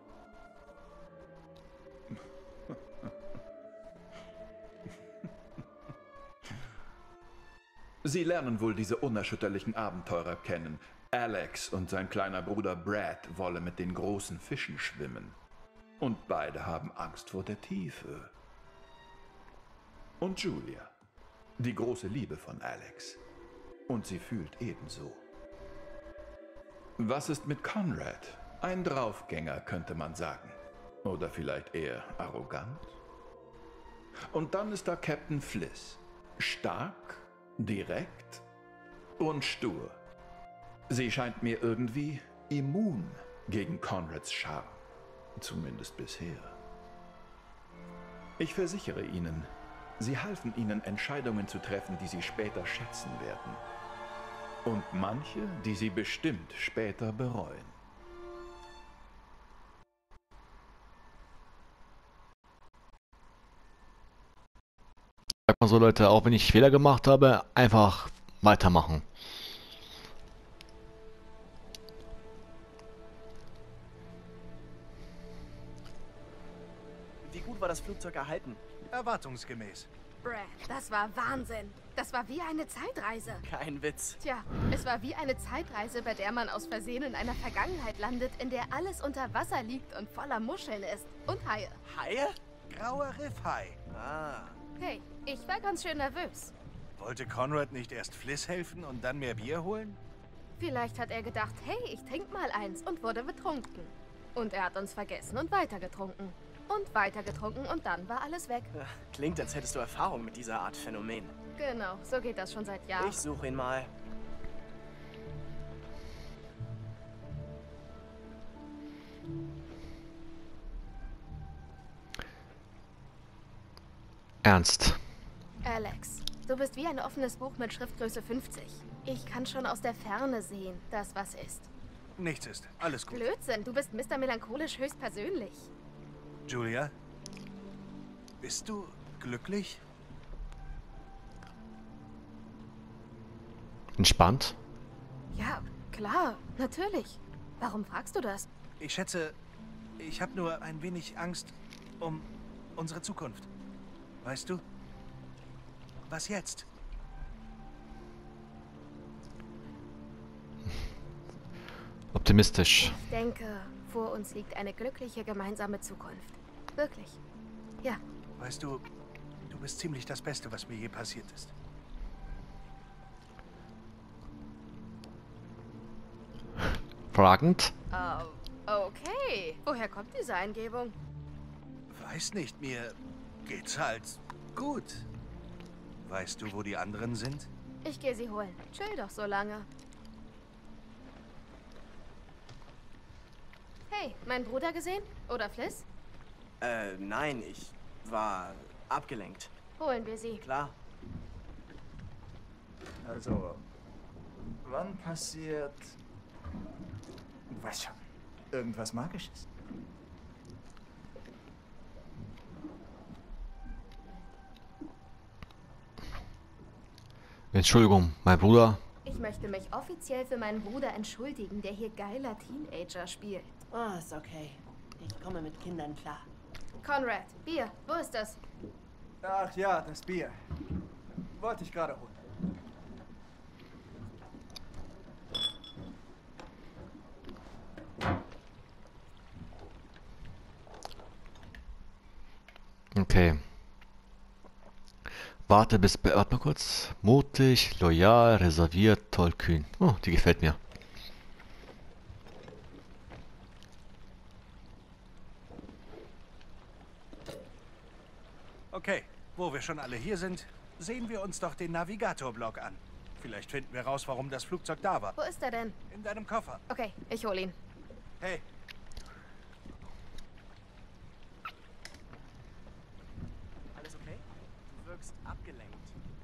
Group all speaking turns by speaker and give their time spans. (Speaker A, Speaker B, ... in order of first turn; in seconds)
Speaker A: 8.0-15.4, 16.0-18.3, 20.2-20.9, 21.6-23.2, 23.9-25.2, 27.0-33.0, 34.3-38.4, 39.2-40.0, 40.9-44.8, 45.4-46.6, 48.4-53.6, 54.6-57.7
Speaker B: 65.5-69.0, 124.4-125.0, 144.0-144.6, 162.1-162.9, 177.1-177.7, 217.5-218.8, 242.9-243.4, 245.5-250.6
Speaker C: 77.2-78.6, 83.4-84.2, 91.8-92.3, 93.9-94.6, 108.7-111.3, 113.0-113.9, 196.6-199.5, 200.4-200.7, 273.7-275.9
Speaker D: 78.9-79.9, 92.7-93.8, 97.0-100.0, 132.2-133.3, 136.4-136.9, 138.4-139.8, 148.8-149.3, 150.0-153.5, 154.2-154.6, 156.1-156.7, 168.4-168.8, 169.5-171.5, 181.9-185.1, 186.0-187.5, 258.7-265.2, 265.9-266.6
Speaker E: 80.2-83.4, 84.2-91.8, 94.8-96.5, 100.6-108.7, 111.6-113.2, 125.6-131.7, 133.0-135.7, 145.3-148.4, 162.8-167.2, 177.9-180.9, 187.8-189.7, 193.9-195.8, 199.8-200.4, 219.0-223.6, 226.8-228.4, 265.2-265.8, 266.7-267.6
Speaker F: 203.0-203.6, 204.6-206.0, 207.5-209.4, 229.2-230.3, 231.3-232.2
Speaker G: 223.7-226.3